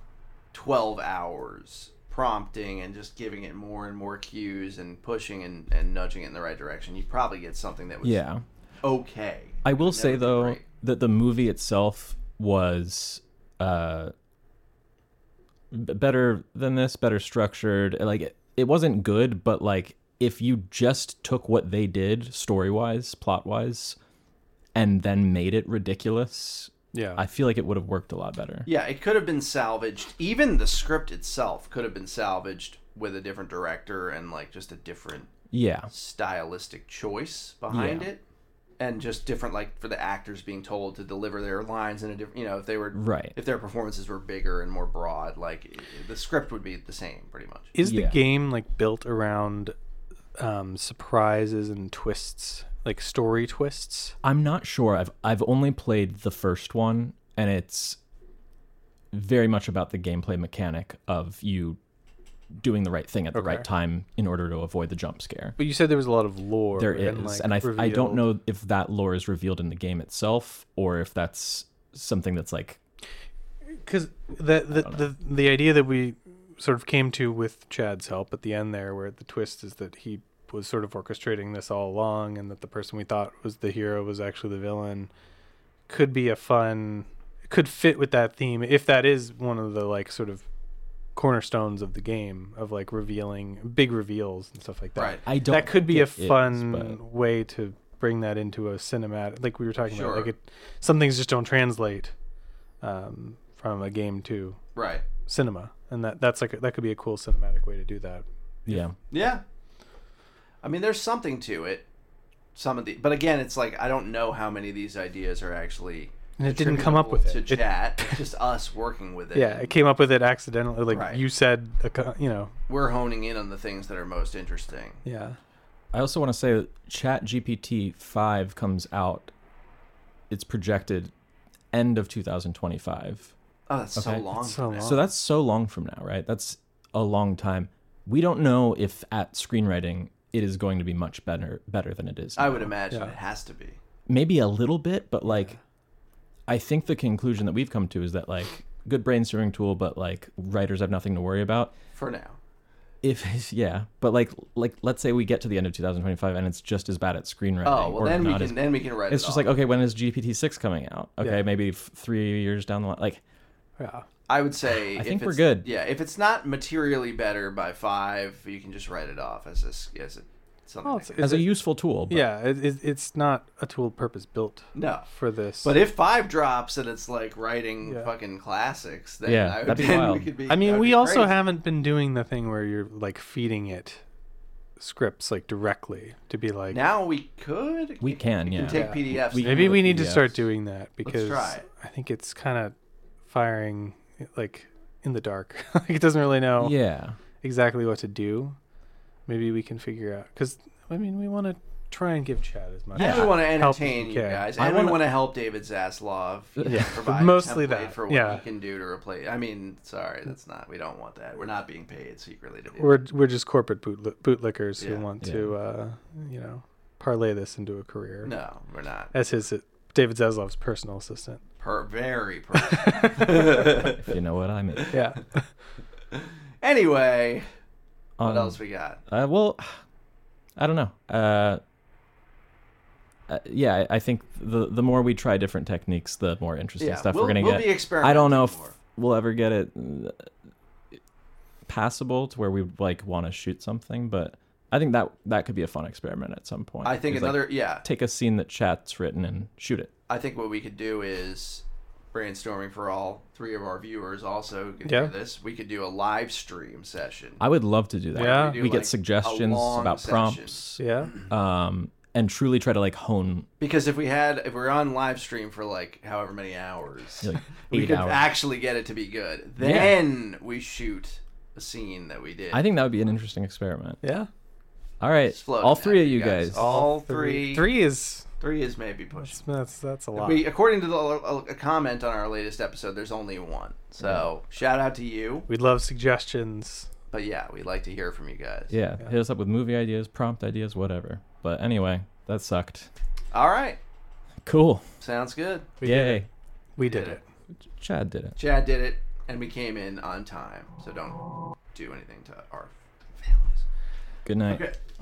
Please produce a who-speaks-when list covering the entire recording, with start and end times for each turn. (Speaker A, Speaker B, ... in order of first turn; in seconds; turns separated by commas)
Speaker A: 0.5-8.2, Speaker B: 8.0-8.4, Speaker A: 8.8-10.6, Speaker B: 9.6-14.1, Speaker B: 15.7-24.0, Speaker B: 24.7-28.7, Speaker C: 26.9-27.2, Speaker A: 28.6-35.3, Speaker B: 35.5-35.9, Speaker A: 35.9-38.2, Speaker B: 37.7-38.1, Speaker A: 38.8-47.7, Speaker B: 42.9-43.4, Speaker C: 47.7-49.7, Speaker B: 47.8-48.2, Speaker C: 50.4-54.2, Speaker B: 54.2-58.0, Speaker B: 59.1-61.8, Speaker B: 62.6-65.5, Speaker C: 63.3-63.6, Speaker C: 65.6-68.2, Speaker B: 66.8-72.8, Speaker C: 73.8-85.1, Speaker B: 74.7-75.0, Speaker C: 85.9-90.5, Speaker C: 91.2-102.1, Speaker A: 95.0-95.2, Speaker B: 95.2-97.0, Speaker A: 99.9-100.3, Speaker C: 102.8-104.6, Speaker A: 104.7-105.0, Speaker C: 105.3-108.8, Speaker B: 108.7-108.9, Speaker A: 109.1-109.4, Speaker A: 110.6-111.9, Speaker A: 112.5-119.7, Speaker C: 116.4-118.2, Speaker C: 119.3-122.5, Speaker A: 120.9-121.2, Speaker A: 122.7-125.0, Speaker C: 125.0-125.4, Speaker B: 125.9-129.3, Speaker B: 130.3-131.1, Speaker B: 131.7-133.3, Speaker A: 133.7-134.9, Speaker B: 133.9-134.2, Speaker C: 134.3-135.0, Speaker B: 134.8-142.7, Speaker A: 142.4-143.8, Speaker B: 144.1-145.6, Speaker C: 145.3-145.5, Speaker B: 146.5-151.7, Speaker A: 151.9-152.4, Speaker B: 153.0-163.2, Speaker A: 157.6-159.5, Speaker C: 163.8-164.1, Speaker A: 164.3-171.4, Speaker B: 164.9-165.7, Speaker C: 170.8-171.5, Speaker B: 171.2-172.2, Speaker C: 172.1-175.8, Speaker A: 174.7-175.1, Speaker A: 175.6-181.3, Speaker B: 179.2-180.3, Speaker C: 180.5-184.0, Speaker C: 184.8-186.8, Speaker A: 186.7-189.8, Speaker B: 188.0-190.4, Speaker C: 188.7-192.7, Speaker A: 191.0-191.6, Speaker C: 193.2-196.7, Speaker B: 196.6-197.2, Speaker C: 197.4-198.6, Speaker C: 199.3-204.9, Speaker B: 202.9-203.4, Speaker A: 202.9-213.0, Speaker B: 204.6-205.0, Speaker B: 206.6-206.9, Speaker C: 206.6-208.4, Speaker C: 212.8-218.3, Speaker A: 214.8-215.1, Speaker B: 215.2-215.5, Speaker A: 218.2-219.1, Speaker C: 219.1-221.4, Speaker A: 221.6-224.1, Speaker C: 222.6-223.8, Speaker B: 223.5-224.9, Speaker A: 224.8-225.0, Speaker C: 224.9-225.4, Speaker A: 226.6-227.4, Speaker B: 228.2-229.8, Speaker A: 228.2-229.0, Speaker B: 230.6-231.6, Speaker B: 233.3-240.3, Speaker A: 236.8-238.7, Speaker B: 241.7-249.9, Speaker A: 246.8-247.8, Speaker A: 250.1-257.4, Speaker C: 254.8-255.1, Speaker B: 257.4-263.5, Speaker A: 258.1-261.3, Speaker C: 258.1-258.6, Speaker C: 260.8-261.1, Speaker A: 263.6-272.6, Speaker B: 267.2-268.2, Speaker B: 269.6-269.9, Speaker B: 272.5-274.0, Speaker C: 274.0-274.3, Speaker B: 275.0-276.8, Speaker A: 275.3-277.7, Speaker C: 276.5-278.3, Speaker A: 278.4-279.4, Speaker C: 279.2-280.4, Speaker A: 280.1-285.5, Speaker C: 285.5-286.9, Speaker A: 287.1-288.7, Speaker B: 288.7-292.9, Speaker A: 293.3-293.8, Speaker B: 294.4-294.8, Speaker A: 295.0-295.7, Speaker C: 295.8-296.2, Speaker B: 295.8-296.3, Speaker C: 296.8-297.2, Speaker A: 296.8-297.2, Speaker B: 297.8-298.4, Speaker A: 298.4-301.2, Speaker A: 301.7-303.6, Speaker B: 304.2-304.6, Speaker A: 304.5-304.8